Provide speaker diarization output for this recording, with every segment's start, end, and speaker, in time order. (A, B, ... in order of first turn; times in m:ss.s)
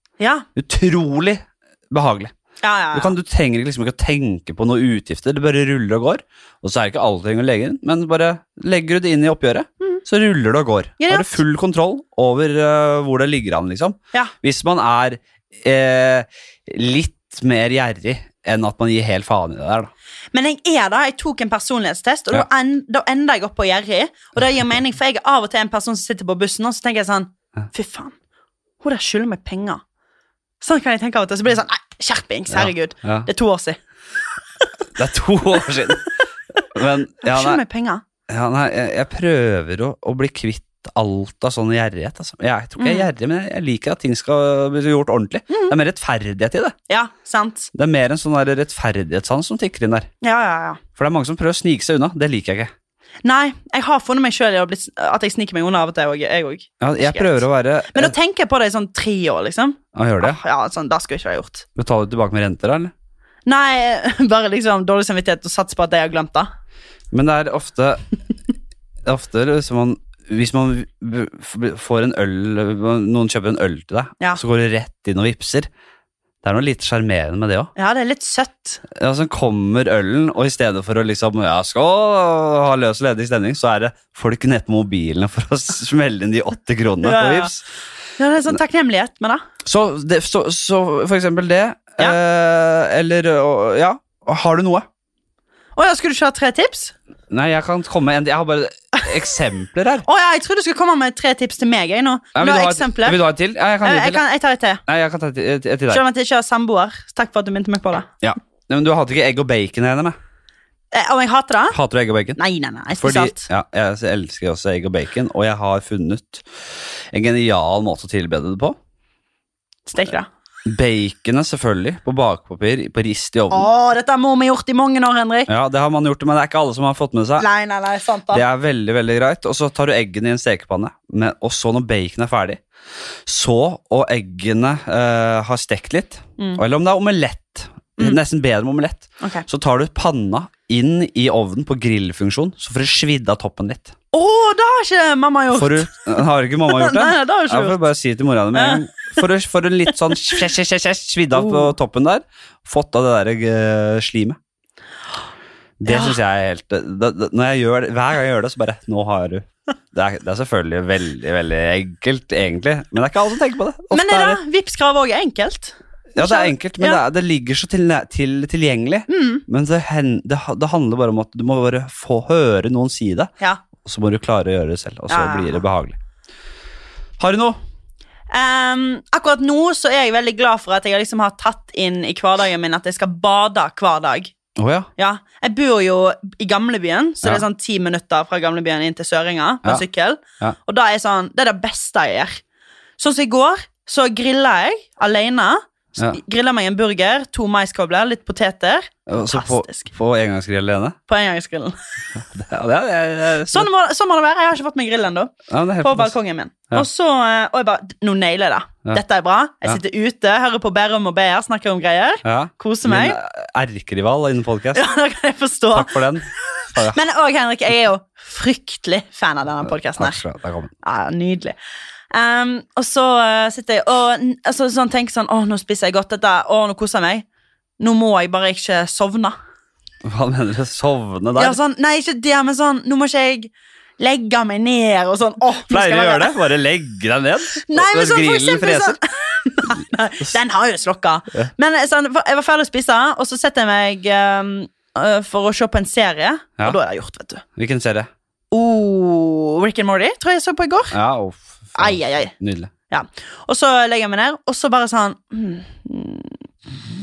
0:00.2-0:00.5 A
0:00.6-0:02.3 B
0:02.6-0:03.1 A
0:02.9-0:19.9 B
0:11.0-0:11.4 A
0:20.3-0:28.2 A
0:28.8-0:29.8 A
0:30.6-0:33.8 A
0:32.5-0:33.3 B
0:35.0-0:37.6 B
0:37.2-0:38.0 A
0:38.3-0:46.8 B
0:42.8-0:43.1 A
0:45.5-0:45.8 A
0:46.9-0:47.7 A
0:47.7-0:50.1 B
0:50.2-0:50.8 A
0:51.0-0:52.7 B
0:53.2-1:01.7 A
0:56.8-0:58.1 B
1:00.0-1:00.4 B
1:01.8-1:02.9 B
1:03.5-1:06.5 A
1:07.1-1:08.1 B
1:09.0-1:15.7 B
1:16.4-1:17.7 B
1:17.8-1:18.8 A
1:18.9-1:27.6 B
1:27.0-1:27.5 A
1:28.2-1:29.4 A
1:29.6-1:34.9 B
1:35.8-1:36.9 A
1:37.3-1:40.1 B
1:40.1-1:43.2 A
1:42.4-1:44.2 B
1:43.8-1:44.8 A
1:44.9-1:46.0 B
1:45.9-1:48.1 A
1:48.2-1:50.2 B
1:50.9-1:51.8 A
1:51.7-1:52.4 B
1:52.4-1:53.4 A
1:53.0-1:56.5 B
1:57.1-1:58.8 B
1:59.9-2:00.3 A
2:00.7-2:03.7 B
2:03.5-2:05.5 A
2:05.5-2:07.5 B
2:07.4-2:08.4 A
2:08.3-2:12.6 B
2:13.3-2:24.0 B
2:24.1-2:25.9 A
2:25.5-2:34.4 B
2:26.7-2:27.8 A
2:28.5-2:28.8 A
2:31.3-2:31.8 A
2:35.8-2:44.4 B
2:35.9-2:36.2 A
2:43.9-2:47.0 A
2:46.2-2:56.0 B
2:49.1-2:49.4 A
2:55.1-2:55.6 A
2:57.2-2:57.6 B
2:58.3-3:04.3 A
3:04.6-3:04.9 B
3:05.0-3:12.4 A
3:13.0-3:19.9 A
3:19.1-3:21.0 B
3:21.1-3:21.8 A
3:22.2-3:23.7 B
3:23.5-3:33.2 A
3:25.5-3:26.1 B
3:32.2-3:34.8 B
3:34.7-3:35.9 A
3:35.7-3:37.0 B
3:36.8-3:40.2 A
3:40.0-3:40.7 B
3:40.8-3:41.6 A
3:42.1-3:47.3 A
3:47.8-3:49.4 A
3:50.0-3:51.6 B
3:51.4-3:56.4 A
3:55.7-3:59.0 B
3:57.6-4:07.4 A
4:07.6-4:08.1 B
4:08.5-4:10.9 A
4:10.9-4:12.7 B
4:11.8-4:12.3 A
4:12.9-4:16.4 A